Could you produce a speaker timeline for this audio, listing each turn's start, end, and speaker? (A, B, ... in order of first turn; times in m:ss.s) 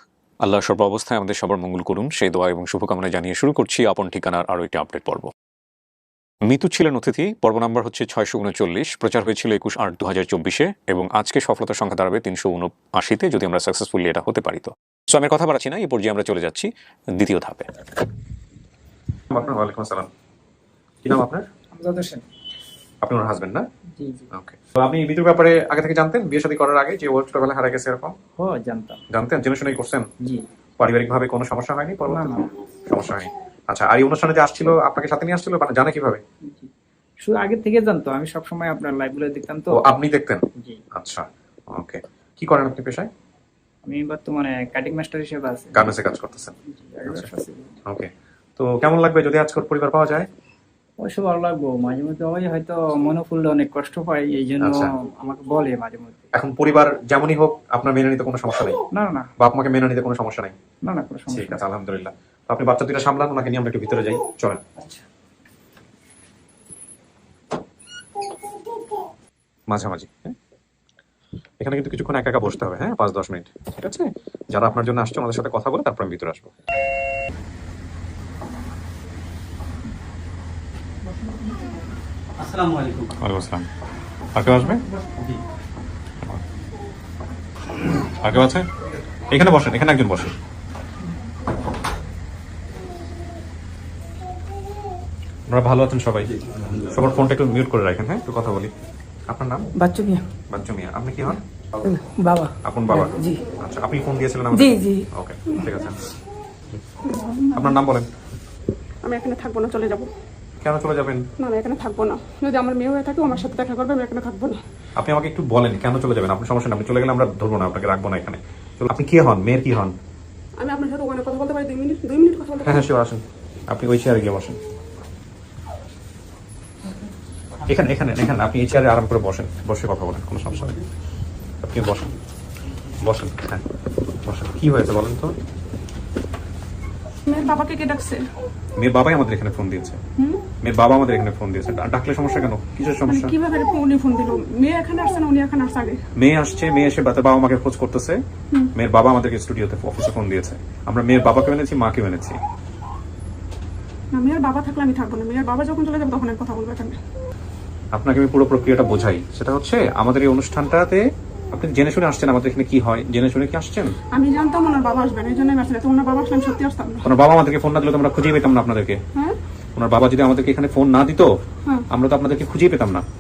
0:00.4-0:05.3 A
0:06.4-0:17.7 A
0:19.3-0:20.1 A
0:21.0-0:21.5 A
0:21.7-0:22.2 B
0:23.0-0:23.7 A
0:24.0-0:24.3 B
0:24.3-0:28.2 A
0:28.4-0:29.0 B
0:29.1-0:30.1 A
0:30.8-0:36.2 A
0:32.1-0:32.5 B
0:37.2-0:39.8 B
0:39.7-0:43.1 A
0:40.6-0:40.8 B
0:43.8-0:45.9 B
0:45.7-0:47.3 A
0:46.7-0:47.7 B
0:47.9-0:50.3 A
0:51.0-0:56.2 B
0:54.6-0:54.9 A
0:56.3-0:58.8 A
0:58.9-0:59.3 B
0:59.4-1:00.6 A
1:00.8-1:01.6 B
1:01.3-1:04.6 A
1:09.7-1:10.4 A
1:11.6-1:16.5 A
1:22.7-1:23.7 A
1:24.3-1:24.8 A
1:28.1-1:28.7 A
1:29.3-1:30.3 A
1:35.5-1:38.7 A
1:39.3-1:39.7 A
1:39.8-1:40.3 C
1:40.5-1:41.4 A
1:41.8-1:43.4 C
1:42.6-1:46.0 A
1:44.5-1:45.1 C
1:47.5-1:48.1 A
1:49.0-1:50.1 D
1:50.6-1:51.3 A
1:51.4-1:54.6 D
1:55.0-2:00.0 A
2:00.6-2:02.9 D
2:02.6-2:04.6 A
2:07.7-2:10.8 A
2:11.6-2:12.1 A
2:13.0-2:13.6 A
2:14.2-2:15.4 A
2:17.3-2:18.3 D
2:18.8-2:20.0 A
2:20.6-2:23.3 A
2:23.1-2:26.0 D
2:26.2-2:28.2 A
2:28.8-2:32.4 A
2:34.1-2:37.0 D
2:37.9-2:44.0 A
2:44.1-2:47.1 D
2:47.0-2:49.0 A
2:49.8-2:51.3 A
2:51.9-2:53.1 A